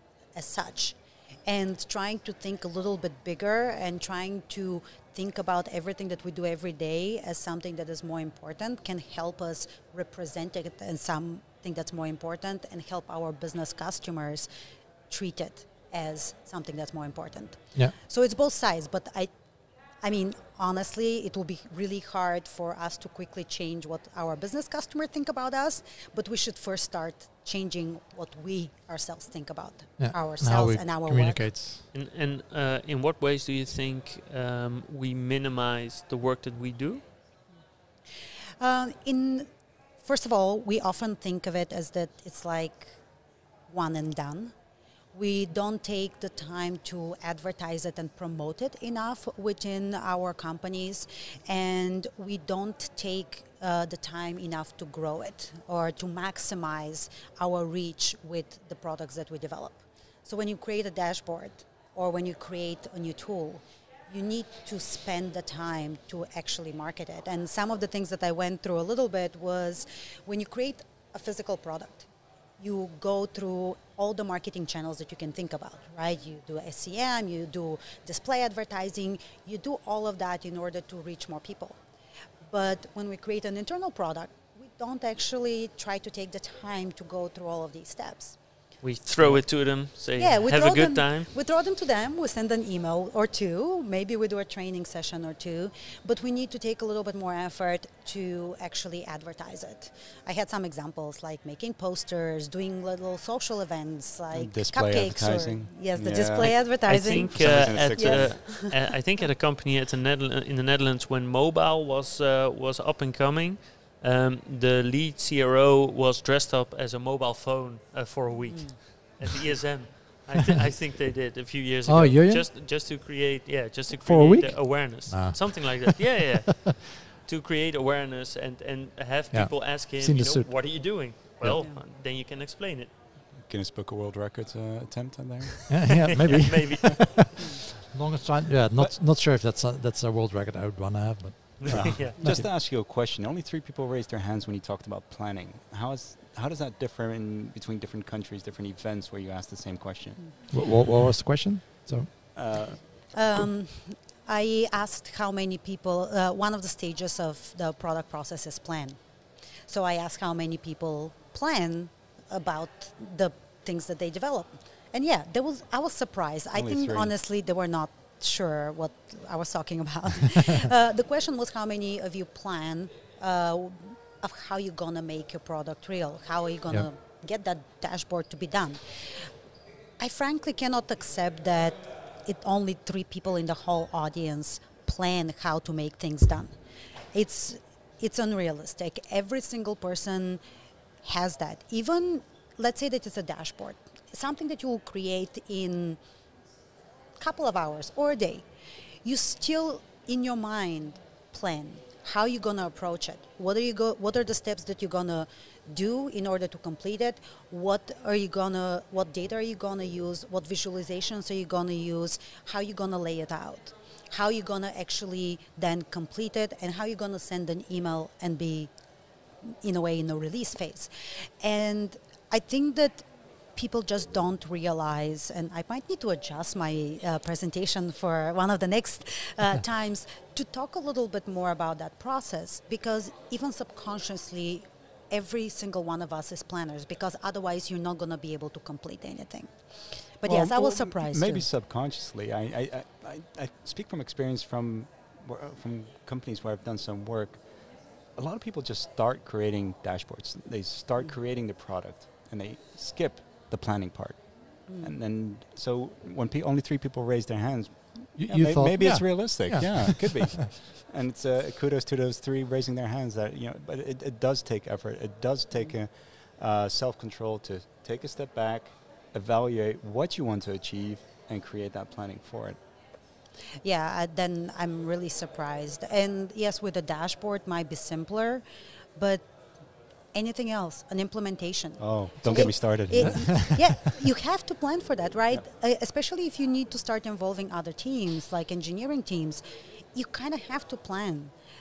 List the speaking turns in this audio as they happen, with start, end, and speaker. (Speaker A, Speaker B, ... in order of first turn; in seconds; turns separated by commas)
Speaker A: 0.3-14.5, Speaker A: 15.1-19.3, Speaker A: 20.0-31.5, Speaker B: 30.0-31.8, Speaker C: 31.9-37.0, Speaker A: 38.6-39.5, Speaker A: 40.0-43.0, Speaker A: 43.7-44.5, Speaker A: 45.1-72.1, Speaker A: 72.6-81.8, Speaker A: 82.5-88.3, Speaker C: 88.8-91.3, Speaker A: 90.2-108.8, Speaker D: 104.3-108.4, Speaker C: 106.8-132.9, Speaker A: 118.5-118.8, Speaker B: 121.9-122.5, Speaker B: 124.0-126.5, Speaker B: 129.3-130.5, Speaker A: 131.5-131.8, Speaker D: 133.4-136.1, Speaker B: 135.7-142.5, Speaker C: 136.2-137.4, Speaker C: 141.6-142.2, Speaker D: 141.7-150.2, Speaker B: 150.5-152.4, Speaker D: 152.3-152.8, Speaker A: 153.1-159.0, Speaker A: 159.7-179.3, Speaker D: 166.5-167.1, Speaker A: 180.0-186.6, Speaker A: 187.1-190.4, Speaker A: 191.0-196.0, Speaker A: 197.2-198.4, Speaker A: 199.0-218.7, Speaker A: 219.4-241.4, Speaker D: 240.2-247.5, Speaker D: 248.1-272.6, Speaker A: 254.7-254.9, Speaker B: 258.1-260.5, Speaker A: 273.6-278.4, Speaker A: 278.9-279.3, Speaker A: 280.1-291.3, Speaker D: 281.8-283.6, Speaker B: 282.9-283.5